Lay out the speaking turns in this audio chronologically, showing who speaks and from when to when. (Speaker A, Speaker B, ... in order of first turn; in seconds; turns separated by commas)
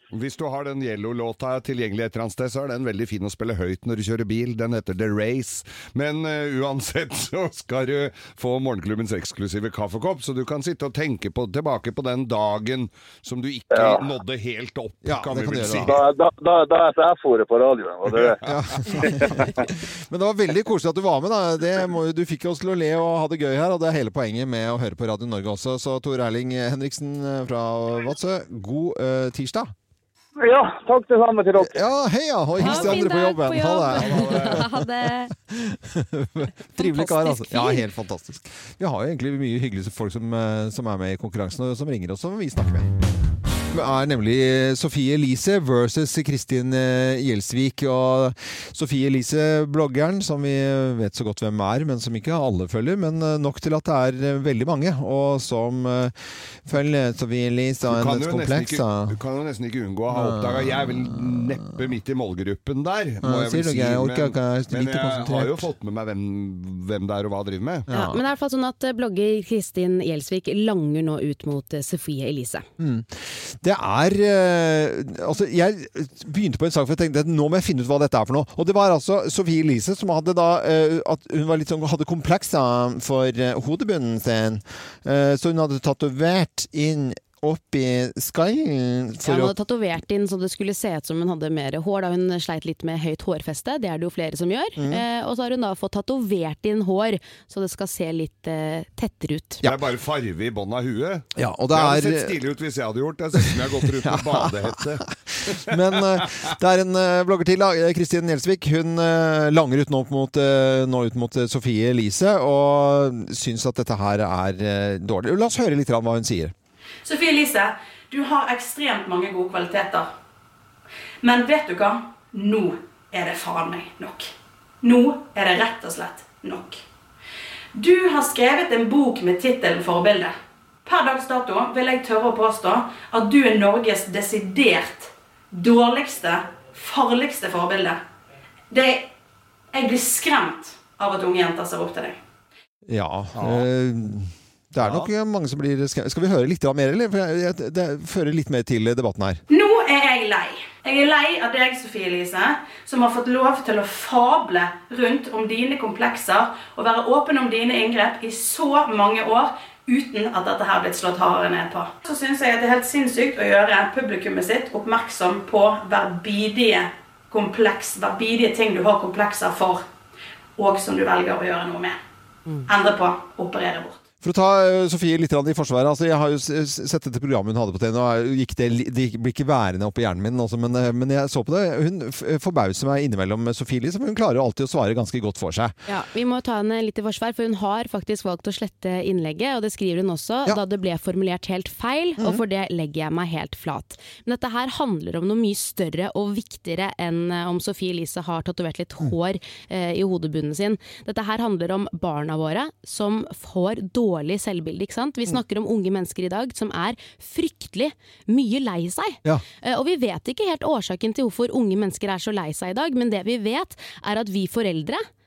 Speaker A: 0.1-16.0, Speaker B: 13.7-14.0, Speaker C: 15.1-16.0, Speaker B: 15.9-18.4, Speaker C: 18.4-29.7, Speaker A: 18.4-19.1, Speaker B: 30.4-31.8, Speaker C: 31.6-34.9, Speaker D: 32.6-35.3, Speaker A: 33.9-34.6, Speaker C: 35.4-42.9, Speaker D: 36.8-37.9, Speaker C: 43.7-56.1, Speaker C: 56.6-59.2, Speaker A: 57.9-67.9, Speaker C: 60.1-61.4, Speaker C: 63.2-65.7, Speaker C: 67.9-68.2, Speaker D: 67.9-72.7, Speaker C: 72.8-89.5, Speaker D: 89.2-99.6, Speaker C: 94.8-95.0, Speaker A: 99.6-105.1, Speaker C: 101.4-102.3, Speaker C: 103.4-104.8, Speaker C: 105.3-116.5, Speaker E: 117.0-120.1, Speaker E: 121.2-124.3, Speaker E: 124.8-126.8, Speaker E: 127.8-138.0, Speaker E: 138.7-139.1, Speaker E: 139.7-142.2, Speaker C: 142.9-149.4, Speaker A: 143.4-143.7, Speaker A: 144.8-145.1, Speaker E: 149.5-169.9, Speaker E: 170.6-172.0, Speaker E: 172.7-174.0, Speaker C: 174.2-185.8, Speaker D: 185.9-215.1